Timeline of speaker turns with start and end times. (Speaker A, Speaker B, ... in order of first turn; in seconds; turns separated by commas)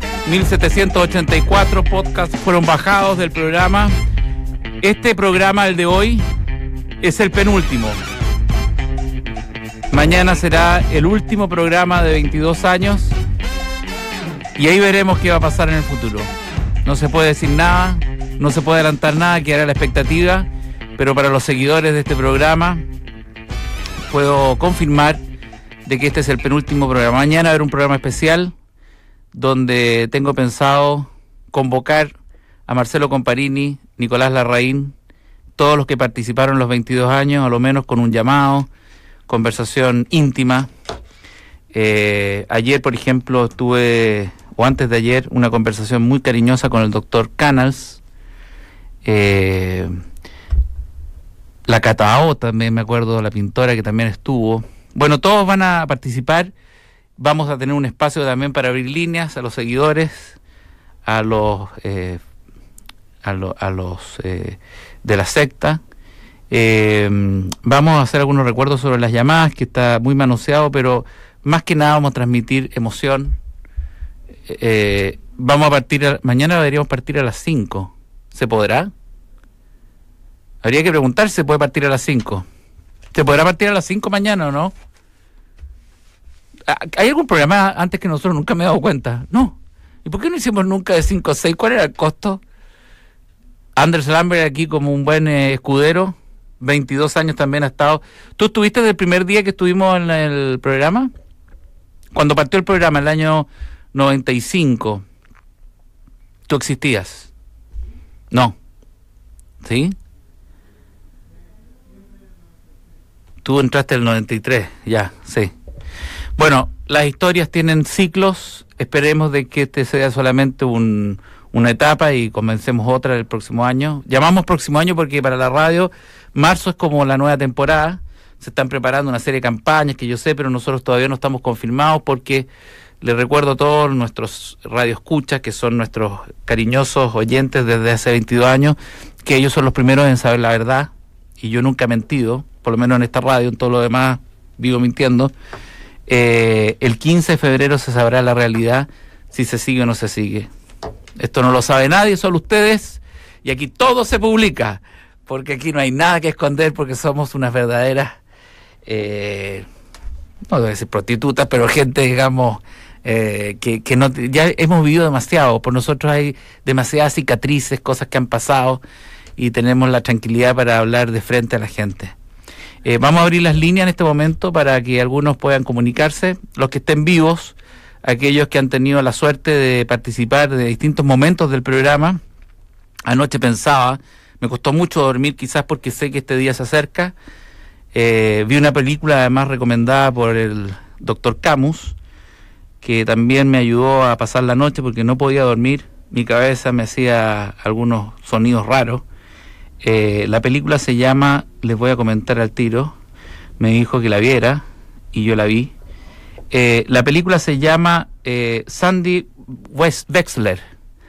Speaker A: 0.2-3.9, Speaker A: 4.8-6.2, Speaker A: 7.0-8.0, Speaker A: 9.9-13.2, Speaker A: 14.6-16.3, Speaker A: 16.8-22.9, Speaker A: 24.1-25.2, Speaker A: 25.9-28.5, Speaker A: 29.3-32.1, Speaker A: 32.7-34.9, Speaker A: 35.6-38.7, Speaker A: 39.3-40.7, Speaker A: 41.7-48.0, Speaker A: 49.0-49.9, Speaker A: 51.7-56.5, Speaker A: 57.2-60.4, Speaker A: 61.0-62.2, Speaker A: 63.2-65.8, Speaker A: 66.5-73.4, Speaker A: 74.5-78.9, Speaker A: 80.6-82.4, Speaker A: 83.1-84.7, Speaker A: 86.7-92.4, Speaker A: 93.8-101.1, Speaker A: 102.1-105.0, Speaker A: 106.5-107.3, Speaker A: 108.3-108.5, Speaker A: 109.6-109.9, Speaker A: 113.4-115.5, Speaker A: 116.4-132.5, Speaker A: 133.0-145.3, Speaker A: 146.1-150.5, Speaker A: 151.2-158.2, Speaker A: 158.8-159.7, Speaker A: 160.5-168.8, Speaker A: 169.4-172.1, Speaker A: 172.8-182.2, Speaker A: 183.1-187.1, Speaker A: 187.9-191.9, Speaker A: 192.8-199.0, Speaker A: 199.8-202.9, Speaker A: 203.6-205.7, Speaker A: 206.5-210.6